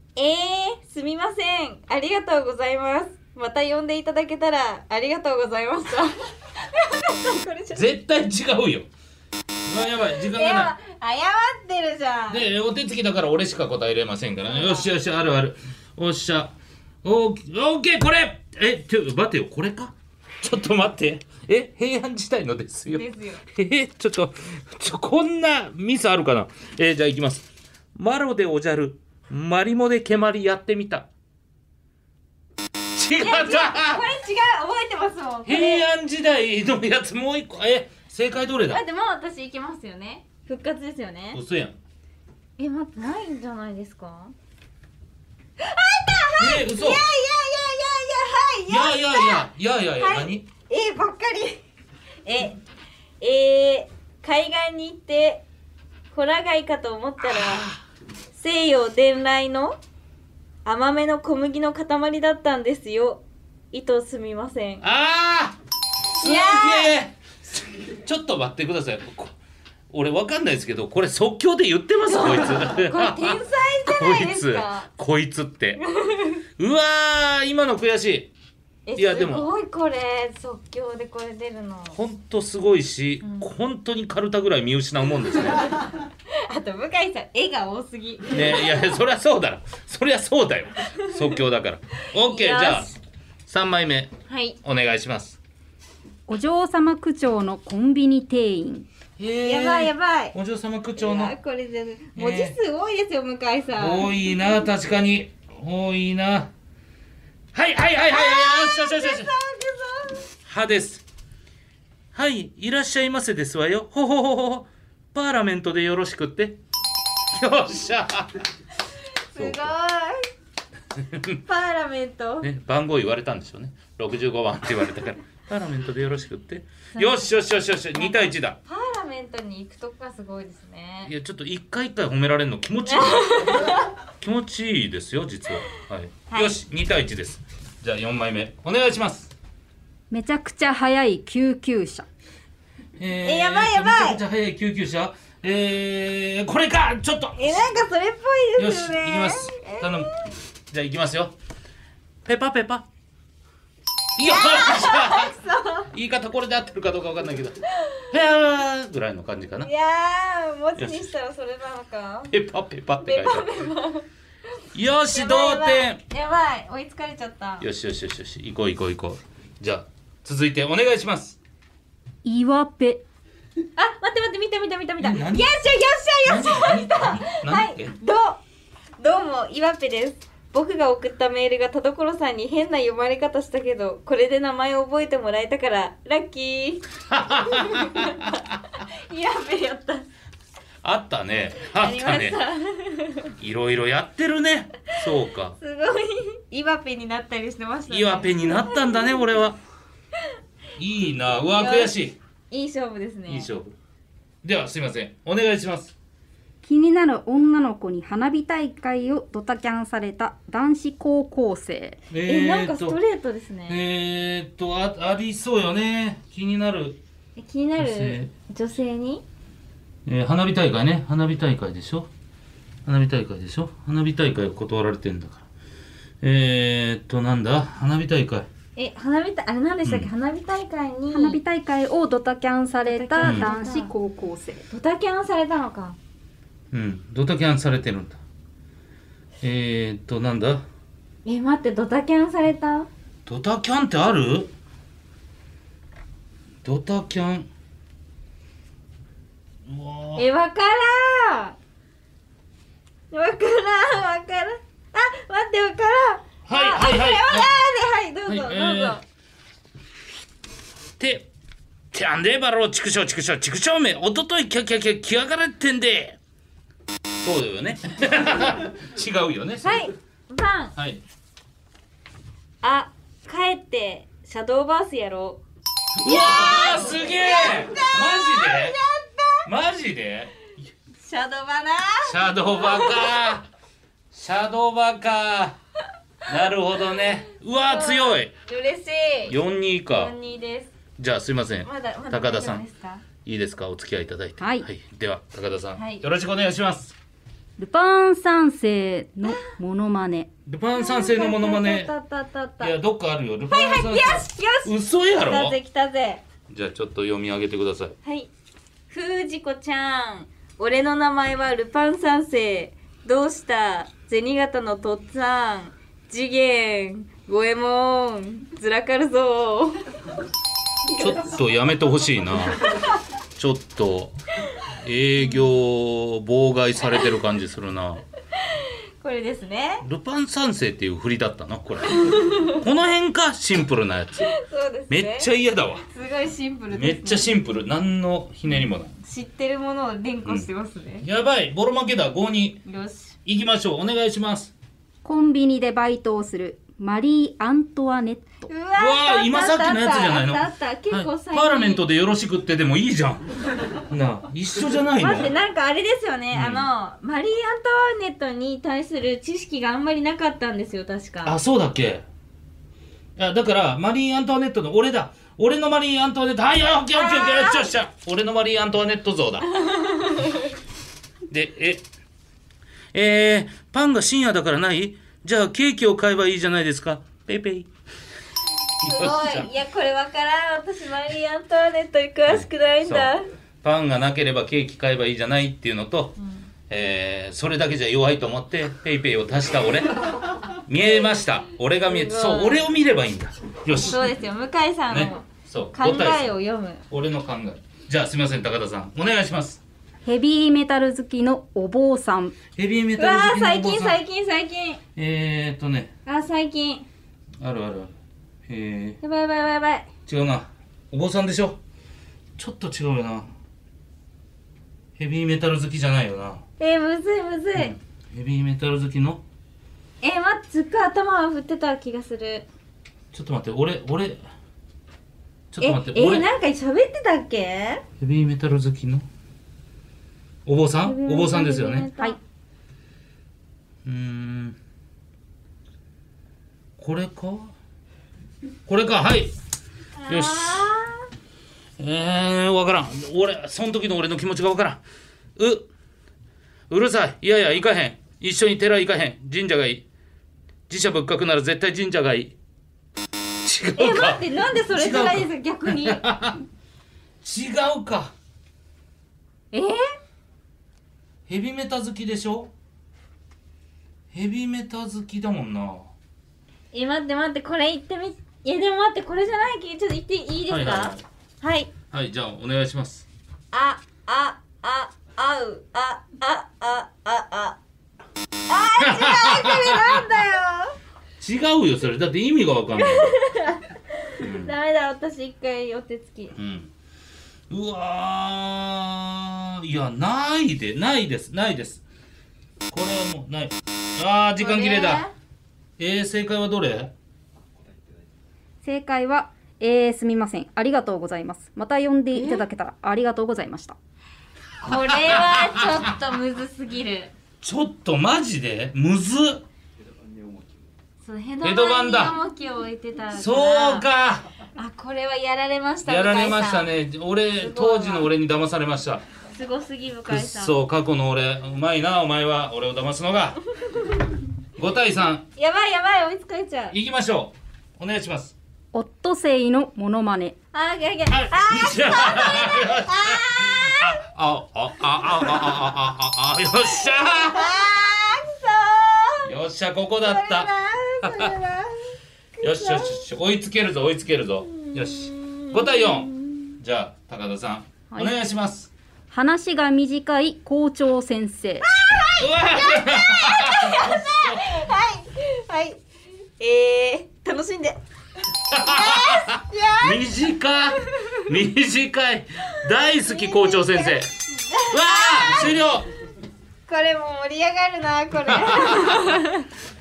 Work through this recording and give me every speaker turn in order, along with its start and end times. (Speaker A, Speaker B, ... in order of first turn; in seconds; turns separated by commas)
Speaker A: 0.1-7.9, Speaker B: 7.7-8.9, Speaker B: 9.7-10.8, Speaker A: 10.1-12.4, Speaker B: 12.3-31.1, Speaker A: 14.4-14.9, Speaker A: 22.9-23.4, Speaker B: 32.9-34.0, Speaker A: 33.2-35.9, Speaker B: 35.5-38.8, Speaker A: 38.7-41.4, Speaker B: 41.3-41.8, Speaker A: 42.6-44.3, Speaker A: 45.6-51.6, Speaker B: 46.4-47.0, Speaker B: 48.7-50.5, Speaker A: 52.2-52.6, Speaker A: 53.2-55.4, Speaker A: 56.1-57.7, Speaker B: 57.2-57.8, Speaker A: 58.3-59.8, Speaker A: 60.6-64.8, Speaker B: 64.8-65.6, Speaker B: 66.2-69.3, Speaker A: 66.2-66.9, Speaker B: 69.9-75.8, Speaker A: 72.1-74.9, Speaker A: 75.8-76.4, Speaker B: 76.6-78.3, Speaker A: 78.9-82.0, Speaker B: 79.0-79.5, Speaker B: 81.9-85.7, Speaker A: 83.2-83.5, Speaker A: 85.7-88.6, Speaker B: 88.3-92.9, Speaker A: 92.2-93.0, Speaker B: 93.5-95.4, Speaker A: 94.3-94.6, Speaker C: 96.3-98.9, Speaker B: 99.2-101.3, Speaker A: 99.4-100.4, Speaker A: 101.0-104.1, Speaker B: 102.2-102.5, Speaker B: 103.8-106.5, Speaker B: 107.5-109.3, Speaker A: 108.1-110.2, Speaker B: 110.4-111.0, Speaker B: 112.1-116.6, Speaker B: 117.3-118.5, Speaker A: 119.1-120.3, Speaker B: 119.4-119.7, Speaker B: 121.0-121.4, Speaker A: 121.5-122.5, Speaker B: 122.4-128.6, Speaker A: 126.9-127.3, Speaker A: 127.9-131.1, Speaker B: 131.0-139.3, Speaker A: 132.9-133.9, Speaker A: 136.3-136.6, Speaker C: 140.1-142.0, Speaker B: 143.0-147.7, Speaker A: 143.2-144.2, Speaker A: 147.4-150.3, Speaker B: 148.6-150.1, Speaker B: 150.7-151.3, Speaker B: 152.2-152.9, Speaker B: 154.2-155.3, Speaker A: 154.2-155.9, Speaker B: 155.9-159.7, Speaker A: 157.8-158.0, Speaker A: 159.6-162.3, Speaker B: 160.8-161.1, Speaker B: 162.3-163.6, Speaker A: 163.0-164.1, Speaker B: 164.7-166.0, Speaker A: 165.1-167.7, Speaker B: 167.6-171.4, Speaker C: 172.2-173.0, Speaker A: 173.8-178.4, Speaker B: 175.0-175.6, Speaker B: 176.2-177.9, Speaker A: 179.0-190.1, Speaker B: 187.1-188.3, Speaker B: 190.8-192.4, Speaker A: 191.8-193.3, Speaker B: 193.4-195.6, Speaker A: 195.6-199.2, Speaker B: 197.9-199.6, Speaker B: 200.8-202.2, Speaker A: 201.5-201.9, Speaker A: 202.5-203.5, Speaker B: 203.3-203.7, Speaker B: 204.4-205.9, Speaker C: 206.6-212.0, Speaker B: 212.1-213.0, Speaker A: 212.2-213.8, Speaker B: 213.7-217.0, Speaker A: 217.4-219.2, Speaker B: 217.8-218.3, Speaker B: 220.1-222.1, Speaker B: 222.8-225.4, Speaker B: 226.2-228.5, Speaker A: 228.8-231.4, Speaker C: 231.1-234.6, Speaker A: 232.8-233.9, Speaker B: 233.2-233.5, Speaker A: 234.7-236.0, Speaker B: 236.7-238.2, Speaker B: 239.4-240.6, Speaker A: 241.2-242.9, Speaker B: 243.2-244.5, Speaker B: 246.6-247.5, Speaker B: 249.7-250.2, Speaker A: 250.2-251.6, Speaker A: 253.1-259.0, Speaker B: 256.4-257.5, Speaker B: 258.3-259.0, Speaker B: 261.0-261.3, Speaker B: 261.9-266.2, Speaker B: 267.2-269.9, Speaker A: 269.6-270.8, Speaker B: 270.8-271.0, Speaker A: 272.6-275.4, Speaker B: 276.0-278.8, Speaker A: 276.0-279.4, Speaker B: 279.4-280.7, Speaker A: 281.0-283.1, Speaker B: 282.0-283.5, Speaker B: 284.1-285.6, Speaker B: 286.2-288.3, Speaker A: 287.6-289.4, Speaker B: 289.3-290.1, Speaker A: 289.9-290.7, Speaker B: 291.0-292.6, Speaker A: 291.6-293.0, Speaker B: 293.2-296.9, Speaker C: 294.4-294.7, Speaker A: 295.8-296.0, Speaker C: 297.6-300.3, Speaker B: 300.4-301.9, Speaker A: 300.7-302.7, Speaker B: 302.6-305.6, Speaker A: 303.5-306.2, Speaker B: 306.5-307.9, Speaker A: 308.0-308.3, Speaker A: 308.9-319.8, Speaker B: 320.9-322.7, Speaker B: 323.4-328.0, Speaker A: 328.4-329.9, Speaker B: 329.8-334.4, Speaker A: 332.0-332.6, Speaker A: 334.2-335.3, Speaker B: 334.9-335.9, Speaker A: 335.9-337.4, Speaker B: 336.7-338.9, Speaker A: 339.0-341.1, Speaker B: 341.0-342.6, Speaker A: 342.6-343.1, Speaker B: 343.2-344.5, Speaker C: 345.0-348.5, Speaker A: 348.5-351.9, Speaker B: 348.8-355.3, Speaker A: 355.0-361.4, Speaker B: 356.3-356.7, Speaker B: 361.2-362.1, Speaker B: 363.1-369.5, Speaker A: 366.9-367.7, Speaker A: 369.6-370.6, Speaker B: 371.3-371.9, Speaker B: 372.9-377.7, Speaker B: 378.8-379.5, Speaker A: 378.8-383.3, Speaker B: 382.3-386.2, Speaker A: 386.2-386.5, Speaker B: 386.7-394.1, Speaker A: 391.9-392.7, Speaker A: 393.9-396.9, Speaker B: 394.9-396.4, Speaker B: 396.9-399.6, Speaker C: 400.1-402.4, Speaker B: 402.6-404.0, Speaker A: 403.0-404.8, Speaker B: 404.9-405.9, Speaker A: 406.1-406.9, Speaker B: 407.4-407.9, Speaker B: 408.5-409.0, Speaker A: 409.0-409.9, Speaker B: 410.1-411.6, Speaker B: 412.4-413.3, Speaker B: 415.0-416.4, Speaker A: 416.6-417.7, Speaker B: 417.6-419.2, Speaker A: 420.0-422.5, Speaker B: 423.1-424.2, Speaker B: 425.5-426.2, Speaker A: 425.6-427.8, Speaker B: 428.0-429.1, Speaker B: 430.4-431.9, Speaker A: 430.9-432.2, Speaker B: 433.9-434.6, Speaker B: 436.8-437.5, Speaker B: 438.6-439.3, Speaker A: 440.0-441.1, Speaker B: 440.1-440.6, Speaker B: 441.8-444.8, Speaker B: 445.4-445.7, Speaker B: 446.7-449.9, Speaker B: 450.7-452.4, Speaker B: 453.4-456.4, Speaker A: 453.8-456.0, Speaker B: 457.2-458.1, Speaker A: 459.5-459.9, Speaker B: 461.3-462.5, Speaker B: 464.1-465.9, Speaker A: 466.7-471.7, Speaker B: 470.5-471.0, Speaker B: 471.9-473.1, Speaker A: 473.5-477.6, Speaker A: 478.5-480.8, Speaker B: 478.8-480.2, Speaker B: 481.2-483.2, Speaker A: 482.8-486.4, Speaker B: 484.2-484.5, Speaker B: 486.4-486.7, Speaker B: 487.5-491.8, Speaker B: 492.7-495.1, Speaker A: 494.4-495.1, Speaker B: 495.8-496.9, Speaker C: 498.6-503.8, Speaker A: 502.1-502.4, Speaker A: 504.6-507.1, Speaker B: 504.7-505.9, Speaker B: 507.4-509.4, Speaker A: 511.1-513.9, Speaker B: 511.4-512.2, Speaker B: 513.1-514.3, Speaker A: 514.6-516.7, Speaker B: 515.9-519.0, Speaker A: 517.4-518.1, Speaker A: 519.3-520.5, Speaker B: 520.1-523.4, Speaker B: 524.6-525.2, Speaker A: 525.4-526.8, Speaker B: 526.7-528.4, Speaker C: 528.7-530.4, Speaker A: 530.5-534.0, Speaker B: 531.1-537.6, Speaker A: 537.1-539.3, Speaker B: 539.2-541.4, Speaker A: 540.0-543.0, Speaker B: 542.4-548.7, Speaker A: 544.5-546.6, Speaker C: 549.1-551.7, Speaker A: 551.6-555.8, Speaker B: 552.2-554.6, Speaker A: 556.4-557.8, Speaker B: 558.5-564.1, Speaker A: 558.5-560.0, Speaker A: 562.9-565.5, Speaker B: 564.7-565.9, Speaker A: 566.7-569.5, Speaker B: 568.2-569.2